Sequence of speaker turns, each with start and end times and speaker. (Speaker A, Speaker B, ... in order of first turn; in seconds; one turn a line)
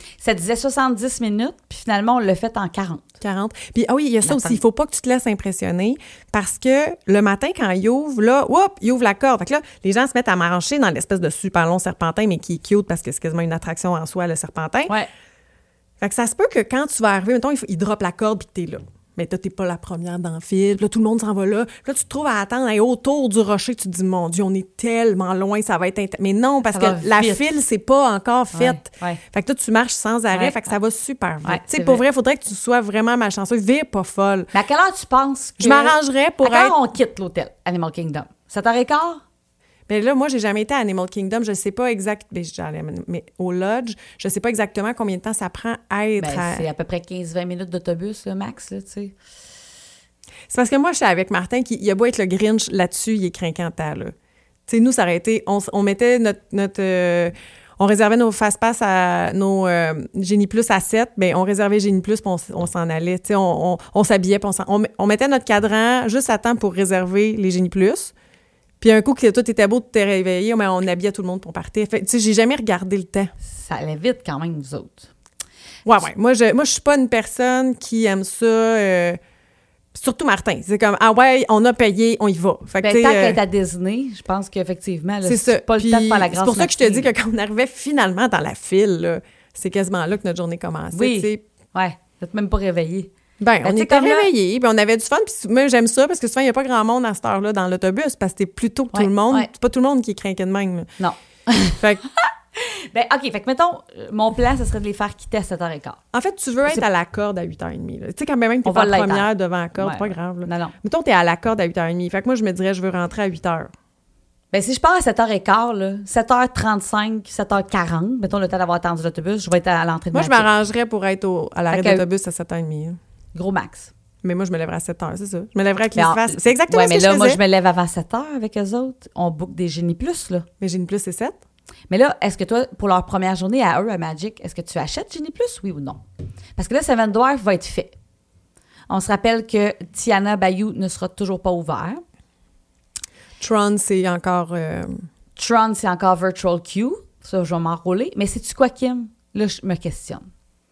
Speaker A: 0.2-3.0
Speaker B: 3.2-14.9
Speaker A: 4.2-4.6
Speaker B: 16.0-34.5
Speaker A: 26.6-27.4
Speaker A: 28.5-29.2
Speaker A: 30.3-30.7
Speaker A: 31.4-32.0
Speaker A: 34.5-39.2
Speaker B: 35.6-36.8
Speaker B: 39.9-46.7
Speaker A: 46.2-49.1
Speaker B: 50.5-54.1
Speaker B: 54.7-68.1
Speaker B: 68.8-73.3
Speaker A: 73.5-75.1
Speaker B: 75.8-79.2
Speaker B: 79.9-83.4
Speaker A: 82.8-87.1
Speaker B: 85.2-91.4
Speaker A: 90.9-93.1
Speaker B: 93.4-100.9
Speaker A: 93.6-94.3
Speaker A: 98.9-99.5
Speaker A: 101.0-106.0
Speaker B: 106.1-113.7
Speaker A: 108.6-110.7
Speaker A: 114.5-120.5
Speaker B: 120.1-123.0
Speaker A: 121.7-122.0
Speaker A: 123.3-123.9
Speaker B: 124.2-127.4
Speaker A: 126.0-130.4
Speaker B: 130.6-131.4
Speaker A: 131.9-136.0
Speaker A: 136.6-137.9
Speaker A: 138.9-142.0
Speaker B: 143.4-145.0
Speaker A: 145.3-150.3